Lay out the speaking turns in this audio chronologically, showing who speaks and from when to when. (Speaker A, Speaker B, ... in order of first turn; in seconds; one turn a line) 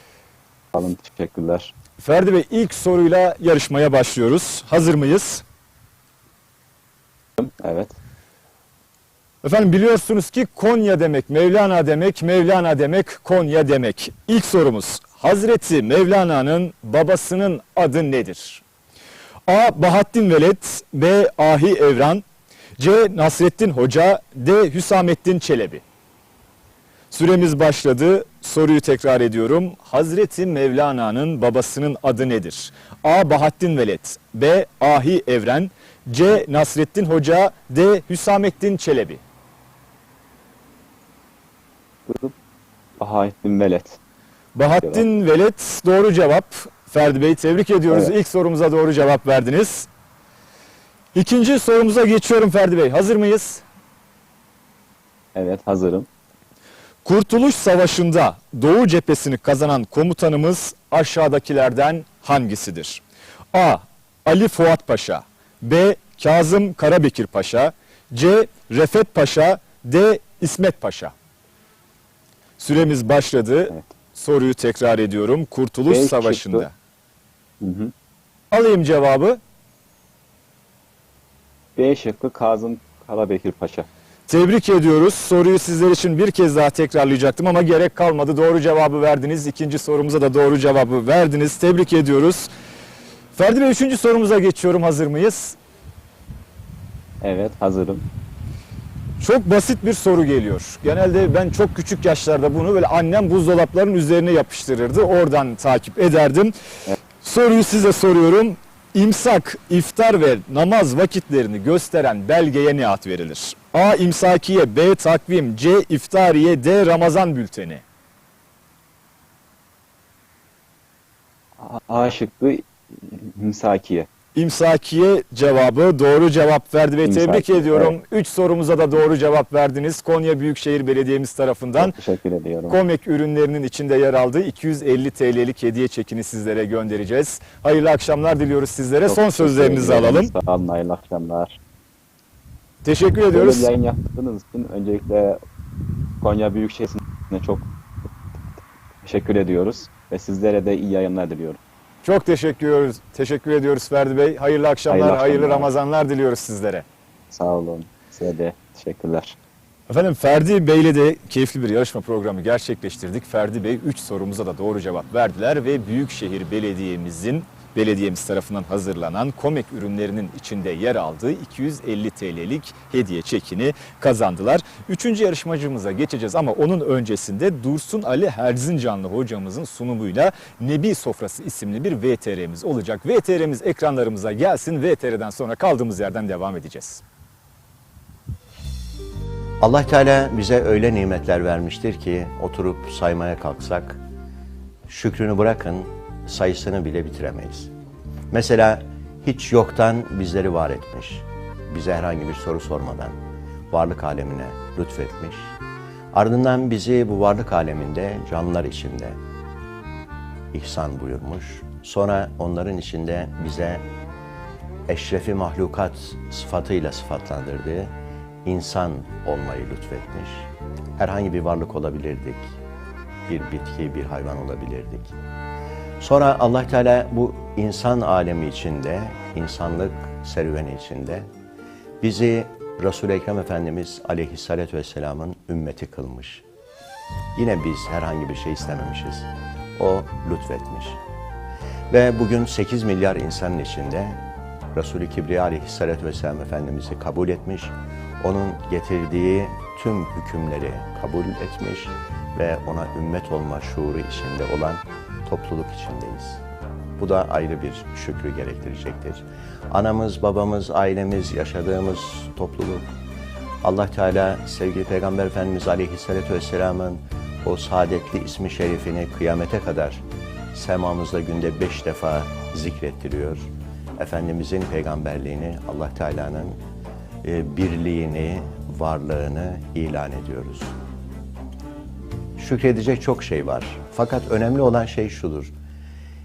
Speaker A: 0.7-1.7
Speaker B: 2.0-5.4
Speaker A: 7.4-7.9
Speaker B: 9.4-18.6
Speaker B: 19.5-22.2
Speaker B: 22.8-25.8
Speaker B: 27.1-39.2
Speaker A: 42.1-42.3
Speaker A: 43.0-44.0
Speaker B: 44.5-49.9
Speaker B: 51.1-53.6
Speaker A: 55.3-56.1
Speaker B: 57.0-71.1
Speaker B: 72.6-76.7
Speaker A: 75.9-76.7
Speaker A: 77.6-77.9
Speaker B: 78.5-79.4
Speaker A: 81.8-83.9
Speaker B: 84.3-92.5
Speaker B: 93.3-95.6
Speaker A: 97.2-98.0
Speaker B: 99.2-106.5
Speaker B: 107.2-117.8
Speaker A: 121.6-124.1
Speaker B: 124.3-131.9
Speaker A: 127.0-127.9
Speaker A: 131.8-132.8
Speaker B: 132.7-140.3
Speaker A: 139.1-141.6
Speaker B: 142.8-143.7
Speaker A: 143.3-145.4
Speaker A: 146.2-147.7
Speaker A: 149.0-151.6
Speaker B: 152.0-156.8
Speaker A: 154.9-155.7
Speaker A: 157.3-159.3
Speaker B: 159.9-187.0
Speaker C: 189.6-194.0
Speaker C: 194.9-197.7
Speaker C: 198.3-203.2
Speaker C: 203.7-205.5
Speaker C: 206.1-209.2
Speaker C: 210.5-213.8
Speaker C: 214.9-222.5
Speaker C: 223.3-225.1
Speaker C: 226.0-231.3
Speaker C: 232.0-236.4
Speaker C: 237.3-241.0
Speaker C: 241.9-244.2
Speaker C: 244.7-256.4
Speaker C: 257.0-262.9
Speaker C: 263.6-276.6
Speaker C: 277.2-280.7
Speaker C: 282.4-285.5